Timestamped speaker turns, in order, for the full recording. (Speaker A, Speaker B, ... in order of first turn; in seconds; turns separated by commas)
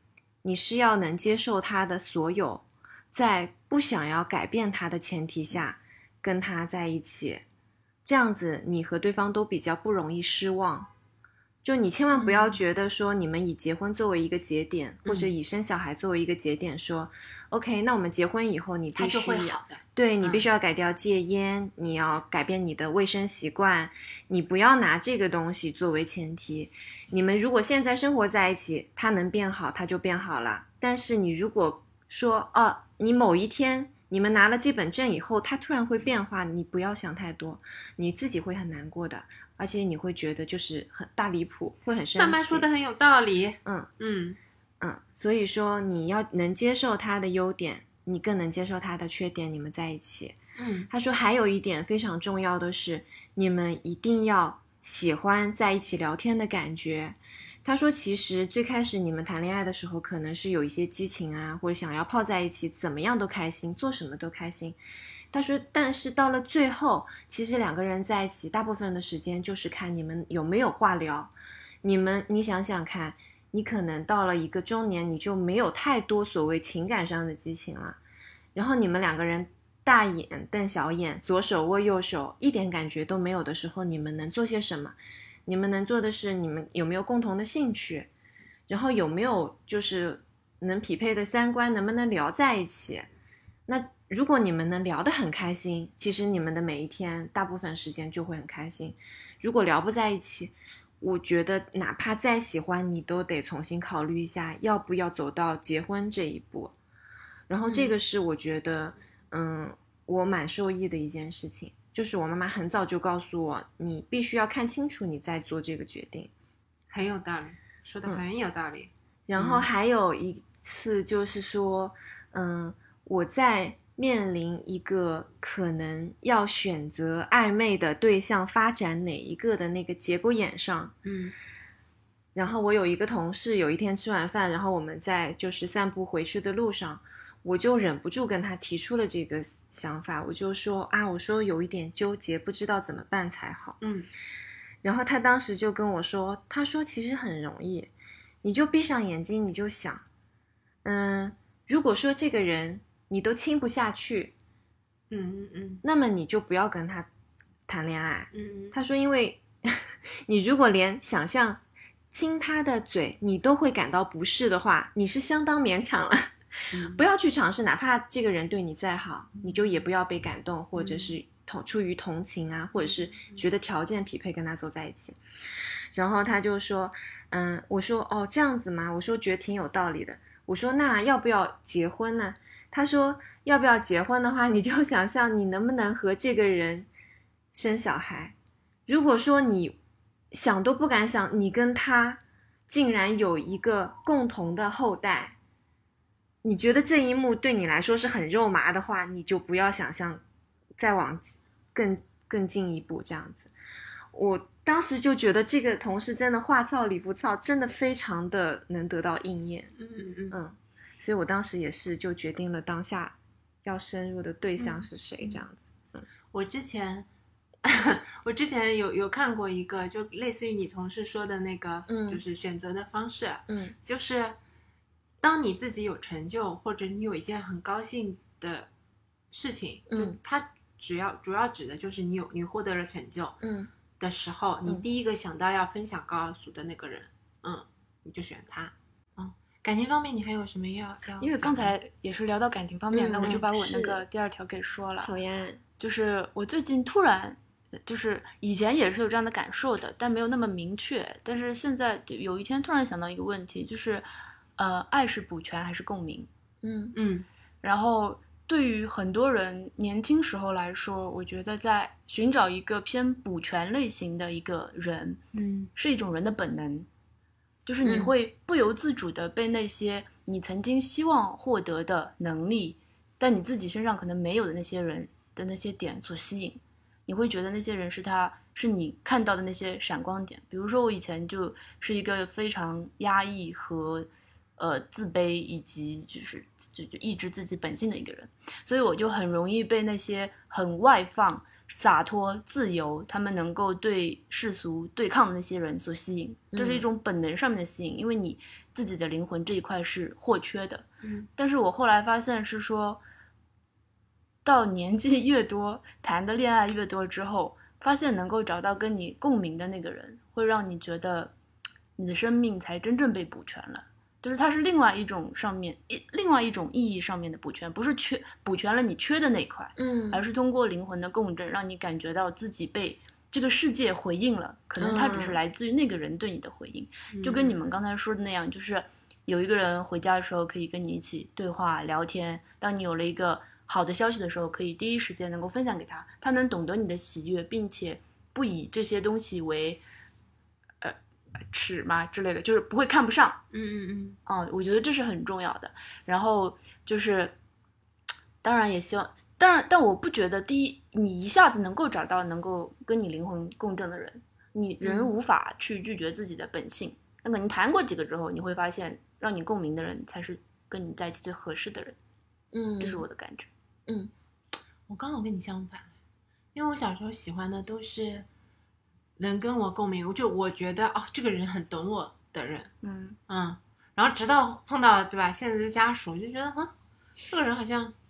Speaker A: 0.4-7.4, Speaker A: 8.0-10.9, Speaker A: 11.6-42.6, Speaker B: 12.2-12.6, Speaker B: 15.0-15.3, Speaker B: 18.9-20.5, Speaker B: 42.1-44.4, Speaker A: 44.8-50.4, Speaker B: 50.6-50.9, Speaker A: 50.9-64.8, Speaker A: 65.3-71.3, Speaker A: 71.8-78.0, Speaker A: 78.5-88.1, Speaker A: 88.7-93.1, Speaker A: 93.7-106.7, Speaker A: 107.5-116.3, Speaker B: 107.6-108.0, Speaker B: 116.9-119.7, Speaker A: 119.3-130.9, Speaker B: 131.0-131.3, Speaker A: 132.3-143.8, Speaker B: 143.8-144.1, Speaker A: 144.8-147.9, Speaker A: 148.4-150.0, Speaker A: 150.8-154.3, Speaker B: 155.1-155.8, Speaker A: 155.8-157.1, Speaker A: 157.7-175.2, Speaker B: 158.3-158.7, Speaker B: 166.7-167.0, Speaker B: 170.8-171.2, Speaker B: 172.8-173.4, Speaker A: 175.9-186.9, Speaker A: 187.5-188.3, Speaker A: 188.9-189.8, Speaker A: 190.3-195.3, Speaker A: 196.4-200.2, Speaker A: 200.8-203.5, Speaker A: 204.1-209.7, Speaker B: 209.8-210.4, Speaker A: 210.3-216.0, Speaker B: 214.6-215.4, Speaker B: 216.3-217.1, Speaker B: 217.6-224.3, Speaker A: 221.9-222.2, Speaker A: 223.5-223.7, Speaker B: 225.2-228.7, Speaker B: 229.3-233.4, Speaker A: 229.9-230.2, Speaker A: 233.4-233.7, Speaker B: 234.0-241.7, Speaker C: 241.2-245.1, Speaker A: 242.9-244.0, Speaker A: 245.0-245.6, Speaker C: 245.8-254.1, Speaker C: 254.6-256.3, Speaker A: 256.6-256.9, Speaker B: 256.9-257.2, Speaker C: 257.6-265.2, Speaker B: 265.3-265.7, Speaker C: 265.7-266.9, Speaker C: 267.6-303.0, Speaker A: 267.8-268.1, Speaker A: 296.5-296.9, Speaker C: 304.4-311.3, Speaker C: 311.9-339.8, Speaker A: 319.8-320.2, Speaker A: 324.8-325.4, Speaker B: 327.1-327.5, Speaker C: 341.5-343.4, Speaker B: 343.5-344.2, Speaker C: 344.2-347.3, Speaker C: 348.4-361.9, Speaker B: 354.8-355.1, Speaker A: 362.5-363.0, Speaker C: 362.8-363.5, Speaker B: 364.9-365.9, Speaker B: 366.5-368.2, Speaker B: 369.2-372.7, Speaker C: 372.8-373.2, Speaker B: 373.3-376.7, Speaker B: 377.3-377.9